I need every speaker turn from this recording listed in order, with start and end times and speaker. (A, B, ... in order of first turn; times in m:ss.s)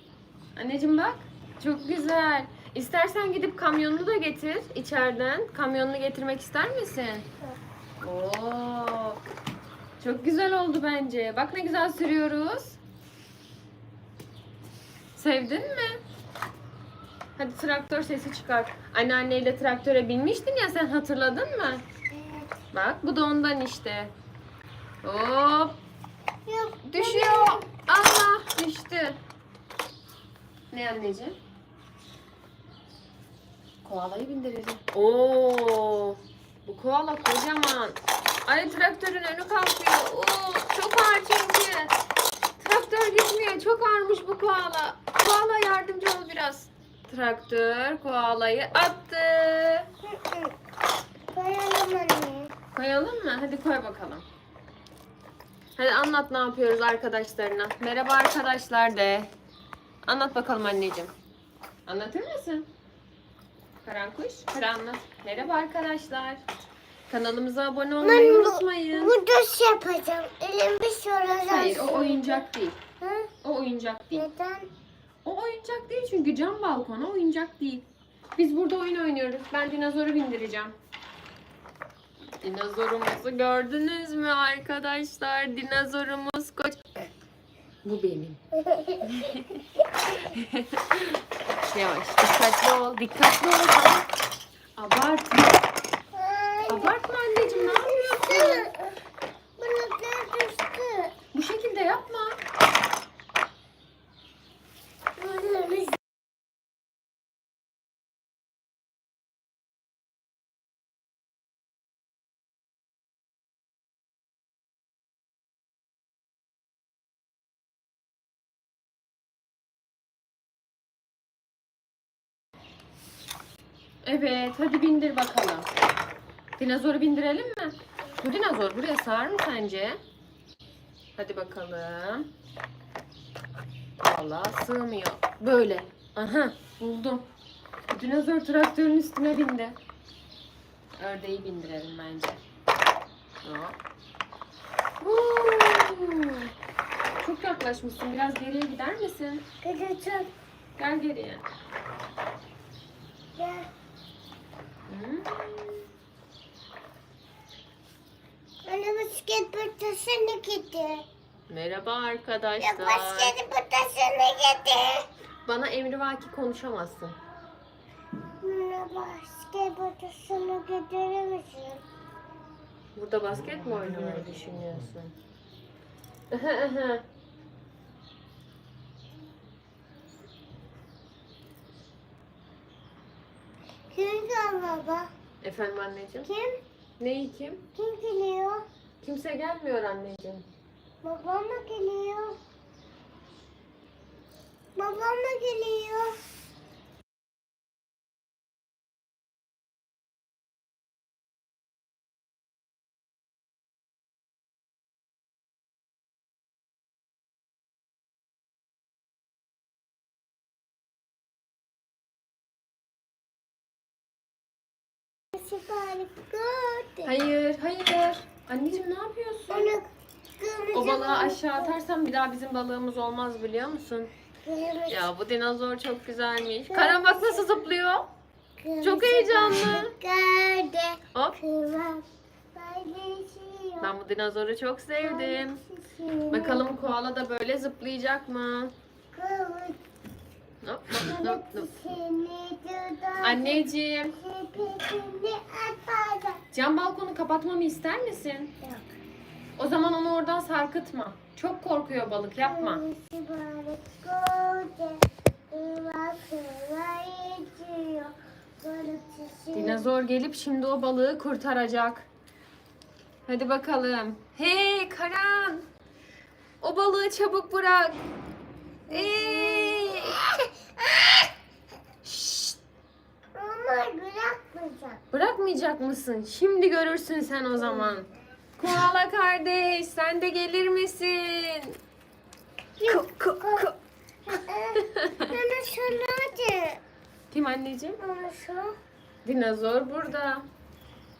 0:00.5-0:07.3 A
0:08.0-0:09.2 A
0:10.0-0:12.8 A
0:15.1-0:16.0 A
0:17.4-0:21.8 A
0:22.1-0:22.5 B
0:22.7-0:24.1 A
0:25.0-0:25.8 A
0:26.4-0:27.7 B
0:26.8-0:29.2 A
0:30.7-0:31.4 A
0:33.8-0:41.9 A
0:42.6-0:49.9 A
0:50.0-0:50.5 B
0:51.3-0:52.5 B
0:52.7-0:54.2 A
0:55.8-0:59.3 A
1:00.0-1:01.1 A
1:01.8-1:02.7 A
1:03.8-1:06.4 A
1:07.1-1:09.2 A
1:08.0-1:12.5 B
1:11.4-1:12.8 A
1:13.0-1:13.3 B
1:13.4-1:14.3 A
1:14.1-1:14.7 B
1:15.2-1:20.8 A
1:22.4-1:27.1 A
1:27.8-1:28.4 A
1:28.5-1:29.3 B
1:29.0-1:34.1 A
1:34.8-1:35.6 A
1:36.1-1:38.9 B
1:36.7-1:38.7 A
1:39.6-1:41.1 B
1:41.3-1:42.4 A
1:45.2-1:46.0 B
2:04.0-2:05.7 A
2:06.6-2:10.0 A
2:11.2-2:12.3 A
2:14.0-2:17.3 A
2:17.9-2:19.8 A
2:21.0-2:22.4 A
2:23.4-2:23.8 A
2:25.0-2:26.5 A
2:27.2-2:29.4 A
2:29.6-2:30.3 B
2:30.8-2:31.4 A
2:33.3-2:33.7 B
2:34.9-2:35.8 A
2:38.6-2:41.0 B
2:41.5-2:43.4 A
2:42.6-2:45.0 B
2:45.4-2:47.2 A
2:48.4-2:51.8 B
2:52.9-2:55.1 A
2:56.3-2:57.0 A
3:03.9-3:05.1 B
3:05.4-3:06.3 A
3:06.2-3:06.6 B
3:07.0-3:07.6 A
3:07.7-3:08.6 B
3:09.0-3:10.4 A
3:11.0-3:12.4 B
3:14.8-3:16.2 B
3:35.3-3:37.1 B
3:37.0-3:39.7 A
3:39.5-3:41.7 B
3:40.7-3:44.1 A
3:44.4-3:45.1 B
3:44.9-3:48.1 A
3:46.7-3:47.5 B
3:48.6-3:53.9 B
3:48.8-3:49.9 A
3:51.1-3:51.4 A
3:53.8-3:55.6 A
3:55.0-3:56.7 B
3:56.3-3:58.7 A
3:59.1-3:59.8 B
4:00.6-4:01.7 A
4:01.0-4:06.4 B
4:03.2-4:04.2 A
4:06.5-4:08.5 A
4:09.6-4:12.8 A
4:12.4-4:19.9 B
4:19.5-4:22.1 A
4:23.3-4:25.7 A
4:26.6-4:28.0 A
4:28.9-4:31.3 B
4:28.9-4:30.2 A
4:32.0-4:32.6 A
4:33.3-4:35.0 B
4:35.1-4:41.8 A
4:37.6-4:38.0 B
4:42.8-4:43.7 B
4:42.9-4:43.8 A
4:44.2-4:46.8 B
4:44.3-4:45.4 A
4:47.3-4:48.0 A
4:48.0-4:48.7 B
4:49.2-4:50.5 A